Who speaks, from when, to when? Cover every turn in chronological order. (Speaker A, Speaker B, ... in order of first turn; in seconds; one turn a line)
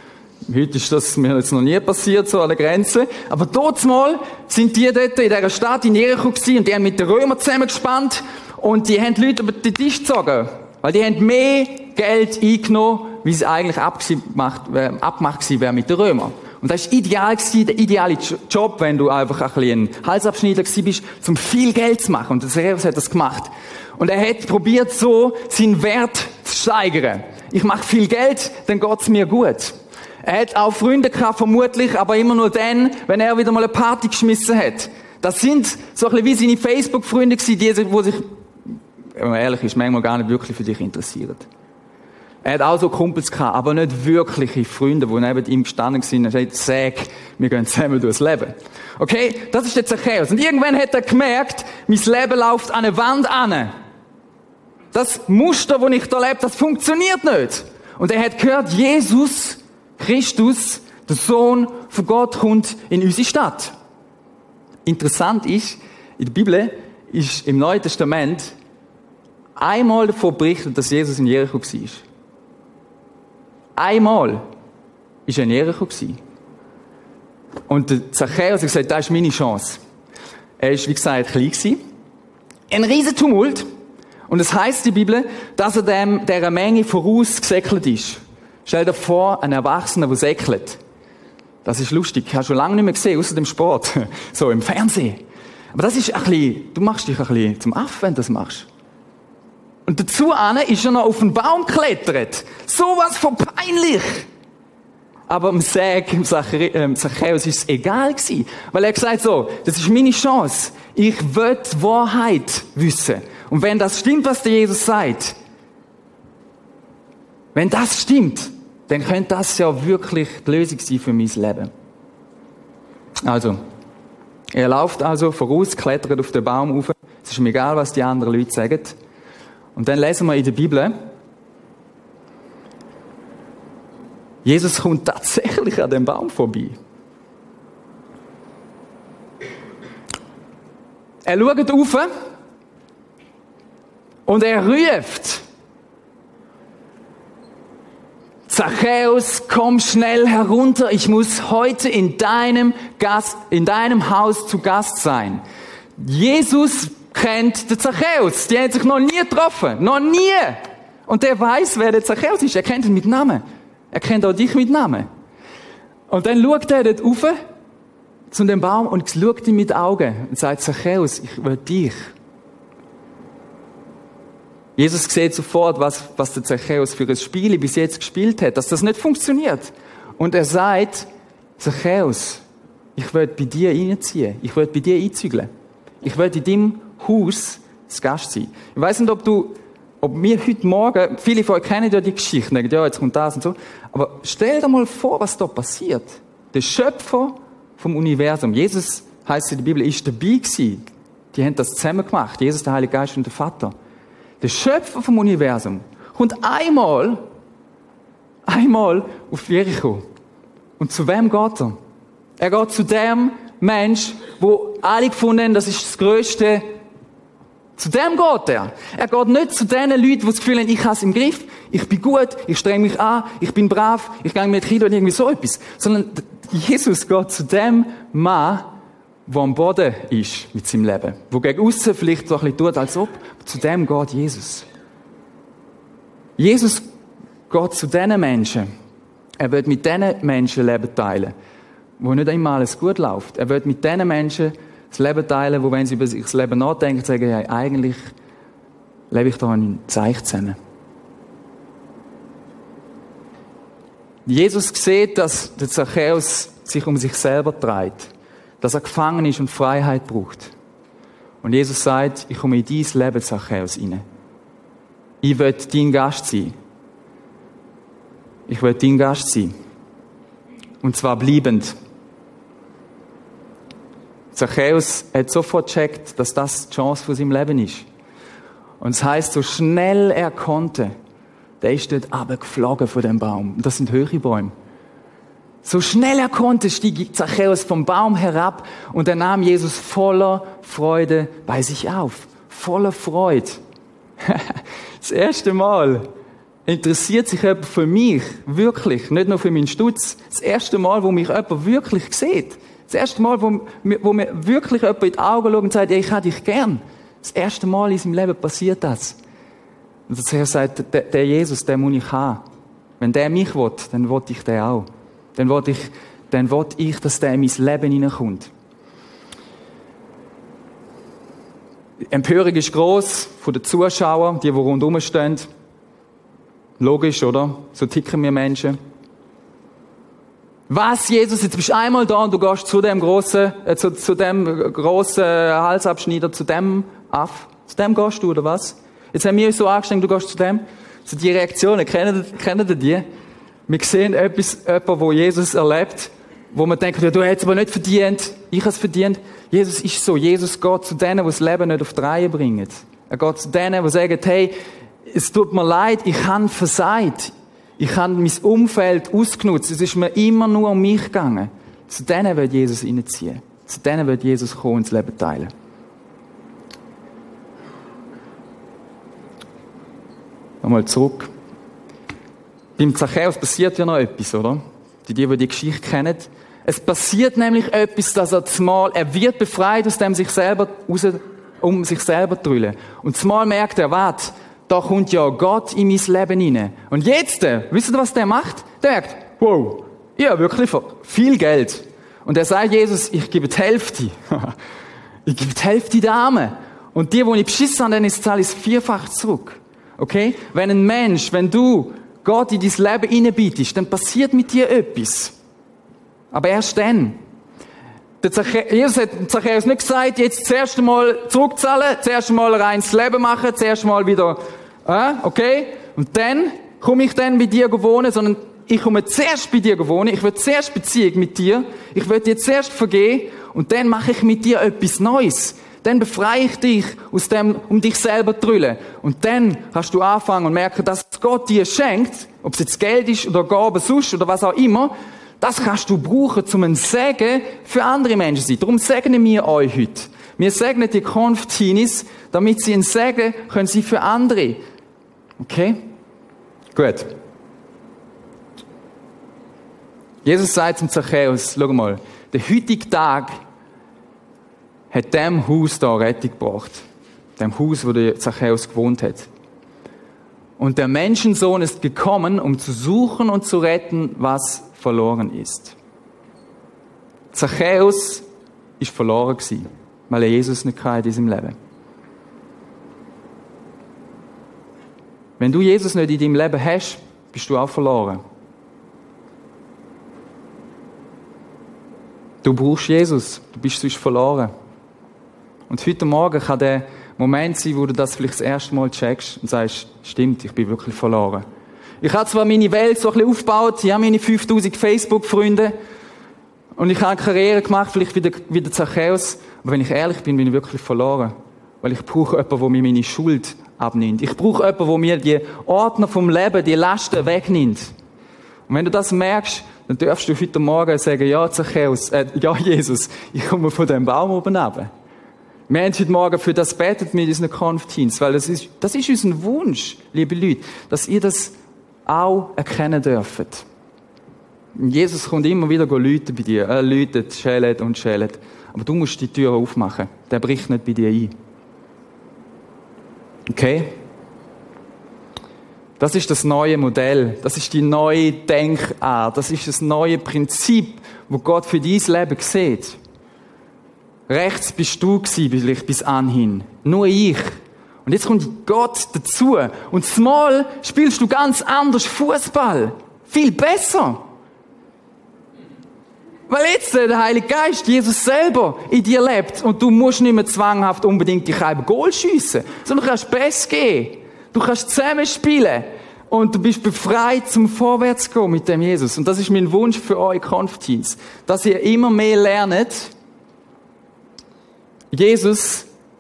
Speaker A: 0.5-38.3
Speaker A: 39.2-41.5
Speaker A: 42.4-53.7
Speaker A: 54.9-63.7
Speaker A: 64.8-68.5
Speaker A: 69.6-72.0
Speaker A: 73.8-74.5
Speaker A: 75.3-76.2
Speaker A: 77.7-79.8
Speaker A: 80.6-81.8
Speaker A: 82.7-83.7
Speaker A: 84.3-90.8
Speaker A: 91.7-95.2
Speaker A: 95.7-98.7
Speaker A: 99.8-104.3
Speaker A: 105.3-115.3
Speaker A: 117.5-121.7
Speaker A: 123.2-123.6
Speaker A: 124.5-129.0
Speaker A: 129.8-130.9
Speaker A: 134.4-136.8
Speaker A: 141.2-142.1
Speaker A: 144.3-145.4
Speaker A: 148.5-155.4
Speaker A: 156.0-165.1
Speaker A: 166.1-167.3
Speaker A: 168.3-172.1
Speaker A: 174.8-181.1
Speaker A: 181.6-182.4
Speaker A: 183.0-185.5
Speaker A: 186.0-203.7
Speaker A: 204.4-207.2
Speaker A: 208.5-210.0
Speaker A: 210.8-211.8
Speaker A: 212.4-216.7
Speaker A: 217.8-234.7
Speaker A: 236.4-236.8
Speaker A: 237.5-238.7
Speaker A: 239.4-241.3
Speaker A: 242.0-248.1
Speaker A: 249.1-250.6
Speaker A: 254.2-260.5
Speaker A: 261.4-264.0
Speaker A: 265.2-266.5
Speaker A: 268.5-269.5
Speaker A: 270.8-271.8
Speaker A: 274.3-277.9
Speaker A: 278.8-280.9
Speaker A: 281.6-284.5
Speaker A: 285.6-293.6
Speaker A: 294.2-296.1
Speaker A: 296.7-309.2
Speaker A: 310.1-312.4
Speaker A: 313.0-318.5
Speaker A: 322.1-325.5
Speaker A: 326.8-328.8
Speaker A: 330.7-343.0
Speaker A: 343.7-354.5
Speaker A: 355.1-365.5
Speaker A: 370.6-371.3
Speaker A: 372.8-394.5
Speaker A: 395.2-405.3
Speaker A: 406.3-407.2
Speaker A: 408.2-444.6
Speaker A: 445.4-445.8
Speaker A: 446.8-447.1
Speaker A: 450.2-453.3
Speaker A: 454.9-456.8
Speaker A: 457.4-459.3
Speaker A: 460.6-465.8
Speaker A: 467.3-468.2
Speaker A: 468.8-471.5
Speaker A: 475.4-478.2
Speaker A: 482.4-484.5
Speaker A: 485.7-491.4
Speaker A: 492.0-495.7
Speaker A: 496.8-507.9
Speaker A: 508.7-514.9
Speaker A: 515.7-521.5
Speaker A: 522.0-523.6
Speaker A: 524.8-531.3
Speaker A: 533.5-534.0
Speaker A: 536.0-543.0
Speaker A: 544.3-554.2
Speaker A: 556.5-573.1
Speaker A: 575.1-575.9